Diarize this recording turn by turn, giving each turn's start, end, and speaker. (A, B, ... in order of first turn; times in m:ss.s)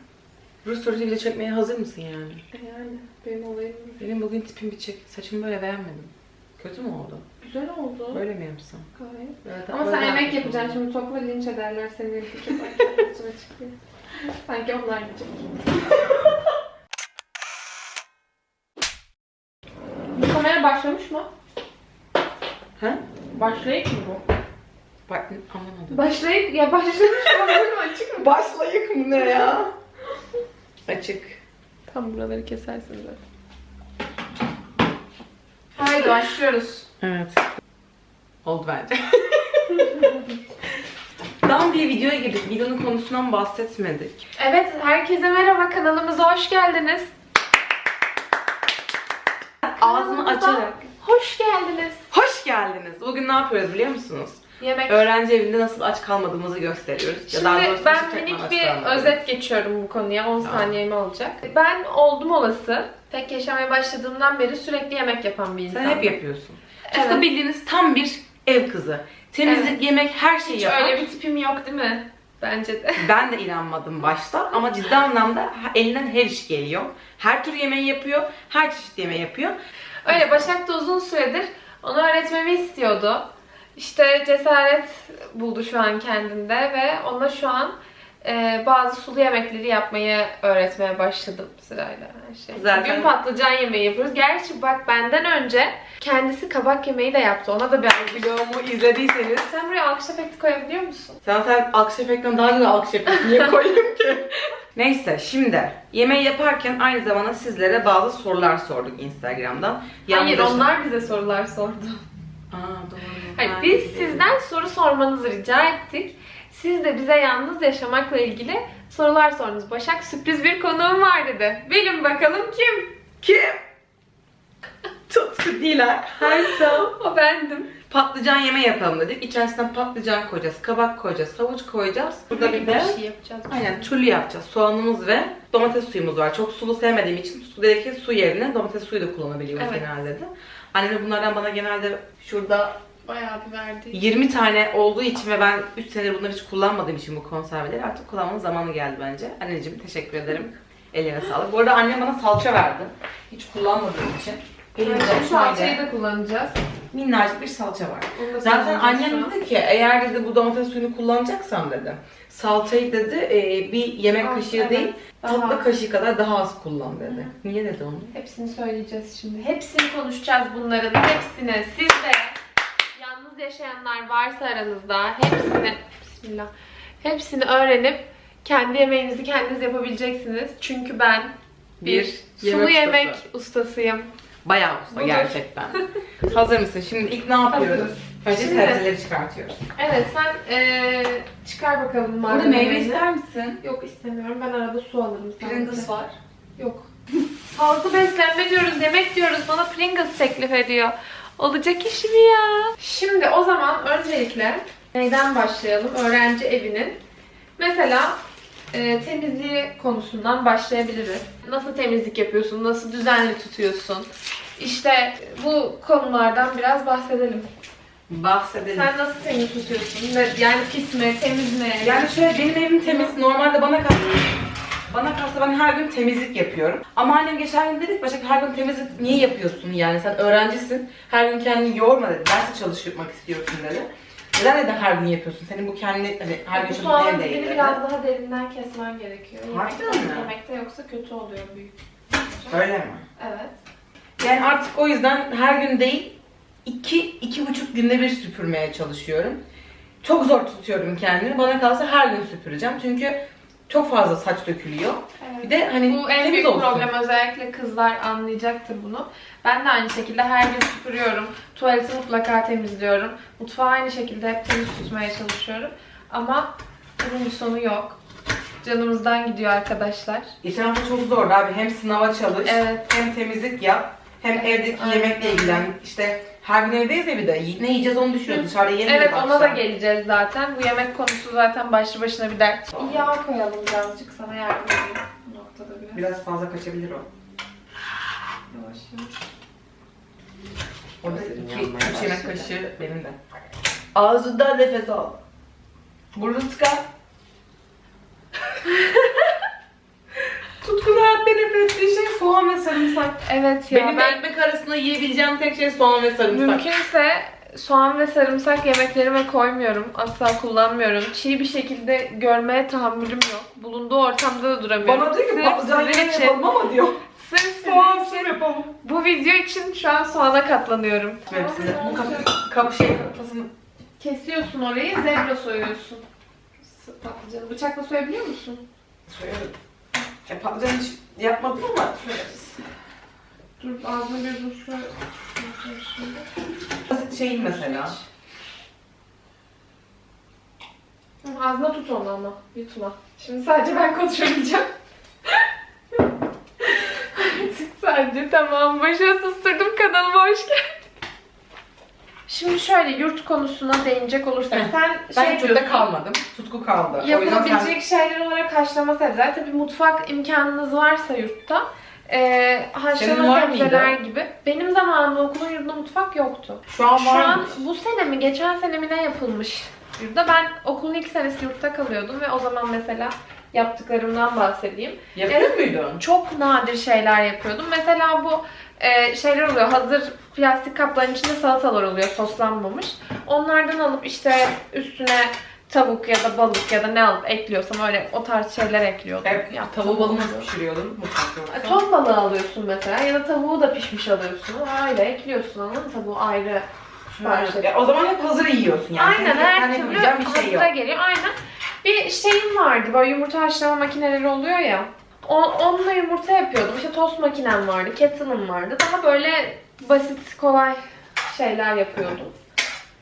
0:00.6-0:02.4 A
0:02.5-0:04.0 B
0:04.0-0:07.2 A
0:07.4-0:08.2 B
0:08.1-0:08.9 A
0:09.0-0:15.5 B
0:09.4-0:10.8 A
0:20.1-0:21.3 B
0:23.3-0:24.2 B
0:25.1-0:26.1 A
0:25.9-0:28.3 B
0:27.2-0:29.7 A
0:30.9-0:31.4 A
0:31.9-0:33.2 B
0:35.8-0:36.9 B
0:37.0-0:37.4 A
0:38.4-0:40.1 A
0:41.4-0:44.2 A
0:44.4-0:47.1 B
0:49.6-0:52.0 B
0:49.8-0:50.8 A
0:52.1-0:59.2 A
0:54.6-0:55.0 B
0:57.3-1:06.2 B
1:00.4-1:00.7 A
1:05.7-1:11.1 A
1:06.9-1:07.2 B
1:09.4-1:09.8 B
1:10.4-1:13.1 B
1:13.0-1:19.6 A
1:20.0-1:38.3 B
1:20.1-1:20.5 A
1:32.5-1:33.1 A
1:37.9-1:39.6 A
1:39.4-1:41.2 B
1:41.2-1:50.7 A
1:50.1-1:52.0 B
1:52.5-1:54.3 A
1:53.4-2:02.9 B
2:03.2-2:03.6 A
2:05.1-2:06.9 A
2:06.2-2:07.7 B
2:07.9-2:13.0 A
2:12.3-2:13.9 B
2:13.5-2:22.7 A
2:19.6-2:19.9 B
2:23.1-2:24.0 B
2:23.9-2:35.8 A
2:34.8-2:36.6 B
2:36.9-2:48.1 A
2:38.2-2:39.3 B
2:44.2-2:45.7 B
2:48.1-2:52.4 B
2:53.0-2:56.5 B
2:57.0-3:04.1 B
3:01.8-3:03.2 A
3:04.4-3:09.6 A
3:04.9-3:05.4 B
3:07.5-3:08.9 B
3:09.8-3:13.0 B
3:12.3-3:13.6 A
3:13.6-3:15.9 B
3:15.4-3:16.2 A
3:16.6-3:16.9 B
3:17.5-3:27.0 B
3:27.6-3:28.2 B
3:28.7-3:37.5 B
3:38.1-3:38.9 A
3:38.7-3:42.1 B
3:41.8-3:44.4 A
3:42.8-3:43.1 B
3:44.9-3:57.8 A
3:56.5-4:02.6 B
3:59.5-4:00.3 A
4:02.5-4:03.0 A
4:03.2-4:03.6 B
4:04.2-4:09.4 A
4:10.0-4:13.2 A
4:13.7-4:16.9 A
4:15.2-4:28.0 B
4:28.6-4:30.3 B
4:30.4-4:39.6 A
4:32.4-4:32.8 B
4:34.3-4:35.7 B
4:38.3-4:46.1 B
4:42.7-4:43.1 A
4:45.9-4:47.1 A
4:48.5-4:49.1 B
4:51.0-4:53.2 A
4:51.0-4:52.4 B
4:54.0-4:55.2 A
4:56.1-4:56.8 A
4:58.6-4:59.3 B
5:00.6-5:06.7 A
5:03.2-5:04.2 B
5:06.3-5:16.4 B
5:14.8-5:17.0 A
5:17.2-5:22.3 B
5:17.6-5:18.7 A
5:21.3-5:23.5 A
5:24.0-5:26.0 B
5:26.6-5:28.6 B
5:29.1-5:29.5 A
5:30.3-5:32.6 A
5:33.6-5:36.3 B
5:36.9-5:38.0 A
5:37.1-5:38.1 B
5:41.2-5:44.7 B
5:46.6-5:50.6 B
5:52.3-5:55.9 B
5:54.5-5:57.7 A
5:57.0-6:30.5 B
6:03.0-6:04.0 A
6:06.7-6:07.6 A
6:15.2-6:16.0 A
6:29.2-6:31.8 A
6:31.5-6:36.7 B
6:37.1-6:40.7 A
6:37.2-6:37.7 B
6:39.0-6:52.3 B